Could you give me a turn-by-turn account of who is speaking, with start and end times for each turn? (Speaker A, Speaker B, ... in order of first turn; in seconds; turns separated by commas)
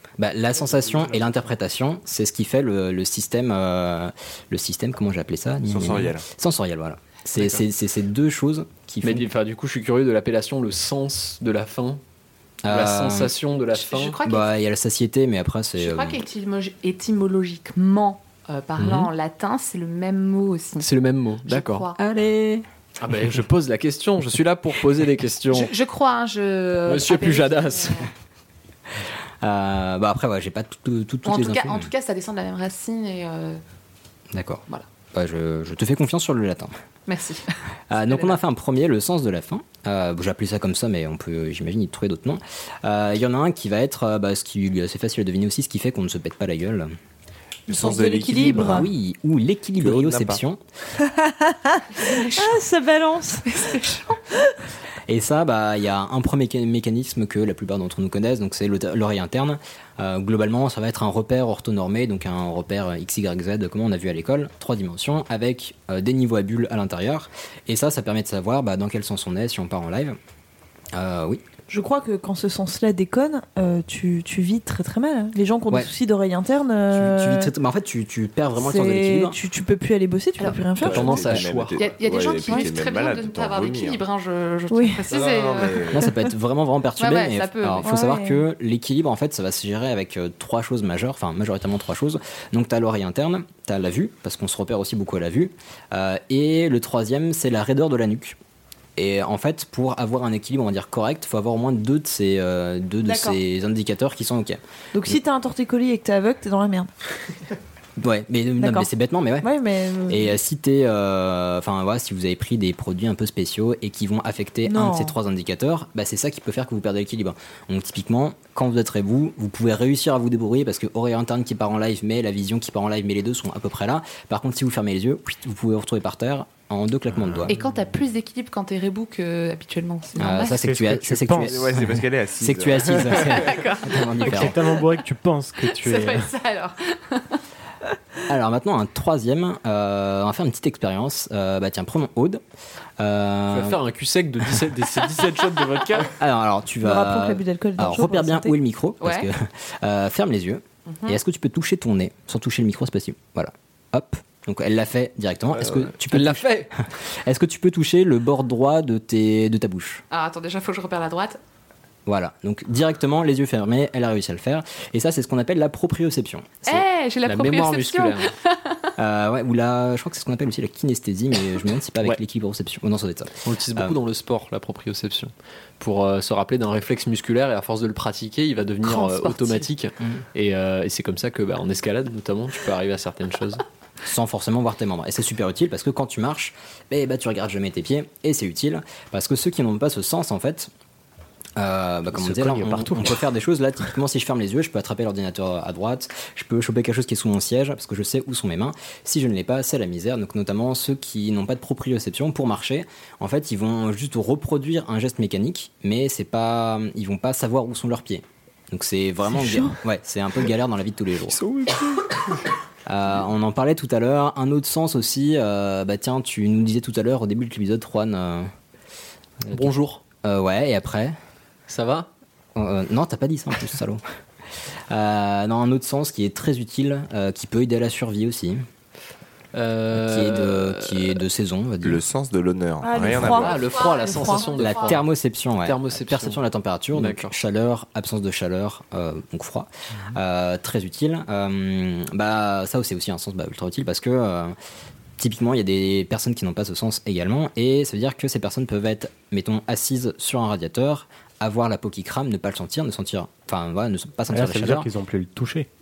Speaker A: 0.2-9.2, Speaker B: 5.7-6.2, Speaker C: 9.0-12.0, Speaker A: 12.6-13.3, Speaker C: 12.7-14.2, Speaker D: 13.7-14.5, Speaker A: 14.2-16.2, Speaker D: 15.8-20.9, Speaker C: 18.8-19.1, Speaker C: 20.8-21.9, Speaker D: 21.4-22.0, Speaker A: 22.0-22.6, Speaker C: 23.0-25.7, Speaker D: 25.5-28.1, Speaker C: 26.9-28.1, Speaker A: 29.4-31.9, Speaker D: 31.2-33.6, Speaker A: 34.3-34.6, Speaker A: 35.1-36.7, Speaker D: 37.1-37.5, Speaker A: 37.9-46.9, Speaker D: 38.0-38.4, Speaker E: 47.7-48.9, Speaker B: 47.7-48.9, Speaker A: 48.6-50.6, Speaker B: 49.8-50.4, Speaker E: 51.0-53.4, Speaker D: 51.9-52.6, Speaker D: 53.5-54.2, Speaker A: 55.1-70.2, Speaker A: 70.9-71.4, Speaker E: 71.7-77.5, Speaker A: 76.9-79.4, Speaker E: 78.5-81.2, Speaker C: 80.8-81.8, Speaker B: 80.8-84.0, Speaker D: 81.8-85.8, Speaker E: 84.7-85.0, Speaker B: 85.1-86.1, Speaker A: 85.9-98.4, Speaker D: 87.0-87.9, Speaker E: 87.8-88.5, Speaker A: 99.0-105.2, Speaker E: 103.0-103.4, Speaker E: 104.9-106.9, Speaker A: 108.0-109.5, Speaker E: 108.6-108.9, Speaker E: 109.4-110.4, Speaker A: 110.1-127.5, Speaker E: 114.7-115.2, Speaker D: 127.5-130.6, Speaker A: 130.2-134.6, Speaker F: 130.4-131.6, Speaker B: 131.4-133.6, Speaker D: 133.2-134.8, Speaker F: 134.3-136.3, Speaker D: 135.6-137.4, Speaker A: 138.3-142.4, Speaker A: 143.0-143.8, Speaker C: 143.5-146.1, Speaker A: 146.2-160.0, Speaker E: 146.8-148.5, Speaker D: 149.0-149.3, Speaker D: 150.9-151.2, Speaker C: 155.5-156.7, Speaker D: 160.1-161.4, Speaker A: 162.1-166.8, Speaker D: 166.6-168.9, Speaker C: 167.2-168.3, Speaker A: 169.0-173.9, Speaker C: 173.4-183.6, Speaker D: 178.8-179.7, Speaker A: 184.0-190.7, Speaker A: 191.6-211.4, Speaker F: 192.1-193.2, Speaker E: 209.3-209.8, Speaker C: 211.3-211.7, Speaker A: 212.8-218.5, Speaker A: 219.4-219.7, Speaker C: 219.5-220.0, Speaker A: 220.2-221.2, Speaker C: 221.7-222.1, Speaker A: 222.6-224.0, Speaker A: 224.9-228.6, Speaker C: 229.5-231.2, Speaker A: 229.9-232.0, Speaker B: 231.8-233.6, Speaker E: 232.8-234.5, Speaker C: 233.2-236.4, Speaker D: 233.4-235.0, Speaker A: 234.7-244.5, Speaker C: 236.9-237.4, Speaker A: 245.2-254.9, Speaker F: 254.3-255.7